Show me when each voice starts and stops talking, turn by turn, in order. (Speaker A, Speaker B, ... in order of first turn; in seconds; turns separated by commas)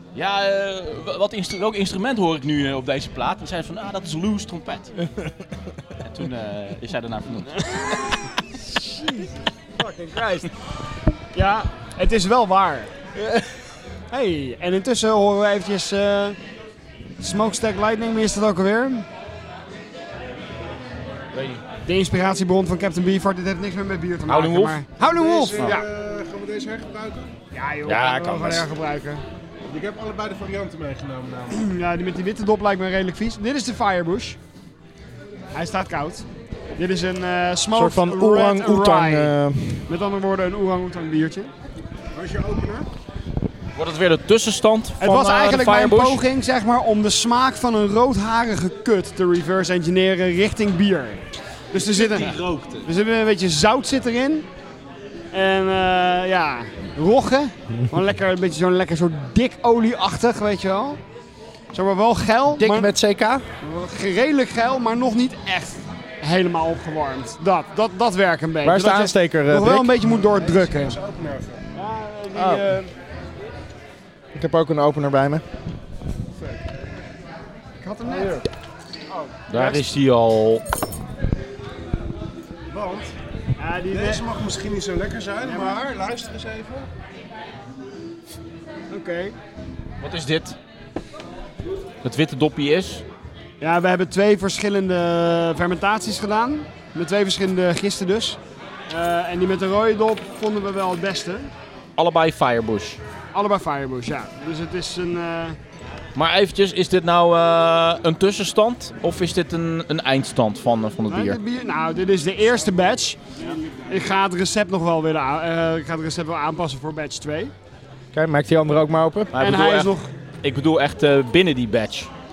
Speaker A: 0.1-4.9, Speaker A: 6.0-7.7, Speaker B: 8.7-10.5, Speaker B: 11.3-12.9, Speaker B: 14.1-16.4, Speaker B: 17.2-19.1, Speaker A: 21.3-21.6, Speaker B: 21.9-25.8, Speaker A: 24.3-24.8, Speaker C: 25.1-27.3, Speaker B: 27.5-29.2, Speaker D: 27.9-28.6, Speaker C: 29.7-31.6, Speaker B: 31.5-34.4, Speaker B: 35.5-36.2, Speaker B: 36.8-39.3, Speaker D: 37.7-39.9, Speaker B: 39.9-41.5, Speaker C: 42.1-42.9, Speaker A: 43.8-46.2, Speaker B: 45.0-54.5, Speaker C: 51.7-52.9, Speaker B: 55.3-61.0, Speaker B: 61.7-62.9, Speaker D: 62.5-63.4, Speaker B: 63.6-71.0, Speaker D: 68.6-69.9, Speaker C: 70.0-71.6, Speaker B: 71.7-72.9, Speaker D: 72.3-72.6, Speaker D: 74.3-75.4, Speaker B: 77.8-78.4, Speaker C: 78.0-78.4, Speaker A: 79.5-80.6, Speaker C: 82.7-83.1, Speaker B: 83.6-84.2, Speaker C: 83.9-86.9, Speaker B: 85.4-85.8, Speaker B: 88.9-89.3, Speaker A: 90.0-90.5, Speaker A: 92.0-93.0, Speaker B: 93.6-98.4, Speaker B: 98.9-101.5, Speaker A: 102.0-103.0, Speaker B: 103.3-105.6, Speaker A: 106.1-111.4, Speaker B: 111.1-113.3, Speaker B: 113.9-117.5, Speaker D: 118.1-119.3, Speaker A: 119.3-119.9, Speaker B: 119.4-120.1, Speaker A: 120.4-122.1